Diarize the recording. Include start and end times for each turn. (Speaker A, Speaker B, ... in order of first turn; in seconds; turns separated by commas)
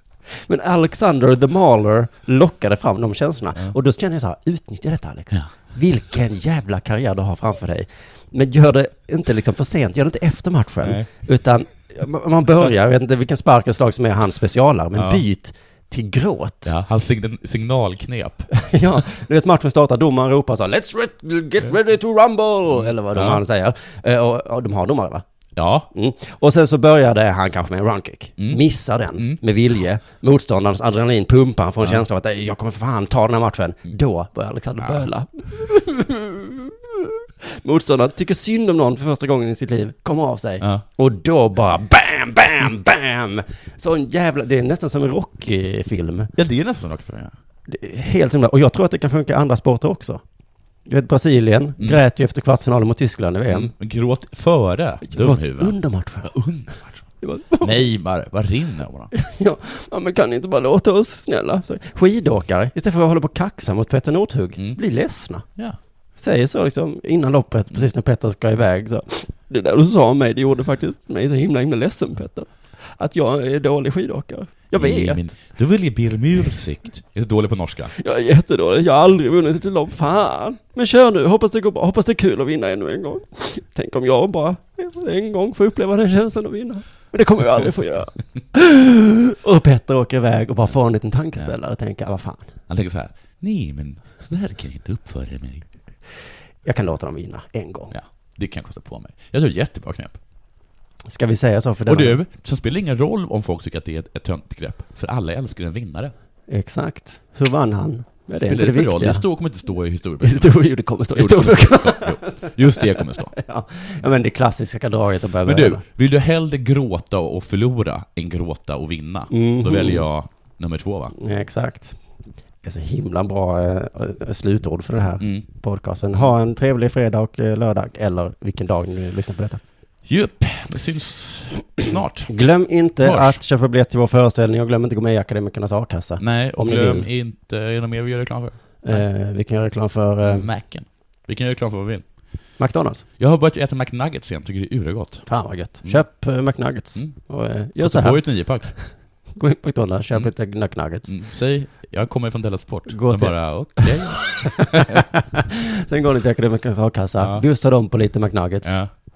Speaker A: 0.5-16.7, Speaker B: 10.8-11.1, Speaker B: 15.0-15.2, Speaker B: 16.6-18.5, Speaker A: 18.6-25.2, Speaker B: 22.8-23.4, Speaker B: 25.6-25.9, Speaker A: 25.9-46.3, Speaker B: 28.4-28.6, Speaker B: 29.1-29.4, Speaker B: 46.4-47.3, Speaker A: 47.7-50.2, Speaker A: 50.9-53.7, Speaker B: 53.5-57.1, Speaker A: 55.1-56.4, Speaker A: 57.2-57.9, Speaker B: 57.6-59.1, Speaker A: 59.1-65.5, Speaker A: 66.2-75.2, Speaker B: 74.8-77.9, Speaker A: 78.0-92.5, Speaker B: 92.7-95.7, Speaker A: 96.7-98.0, Speaker B: 97.9-100.2, Speaker A: 101.1-102.2, Speaker B: 101.9-106.1, Speaker A: 106.5-109.2, Speaker B: 108.4-110.6, Speaker A: 110.2-115.8, Speaker B: 111.1-113.3, Speaker B: 115.5-121.2, Speaker A: 119.3-120.1, Speaker A: 121.2-122.0, Speaker A: 122.6-129.6, Speaker B: 125.2-125.5, Speaker B: 130.1-132.3, Speaker A: 132.3-137.1, Speaker B: 133.0-133.4, Speaker B: 136.2-139.0, Speaker A: 138.8-140.5, Speaker B: 140.2-142.0, Speaker A: 142.6-143.1, Speaker B: 143.2-145.3, Speaker A: 145.3-151.1, Speaker B: 147.8-148.8, Speaker B: 151.1-155.0, Speaker A: 152.9-154.2, Speaker A: 155.8-158.8, Speaker B: 157.2-157.4, Speaker B: 158.6-158.9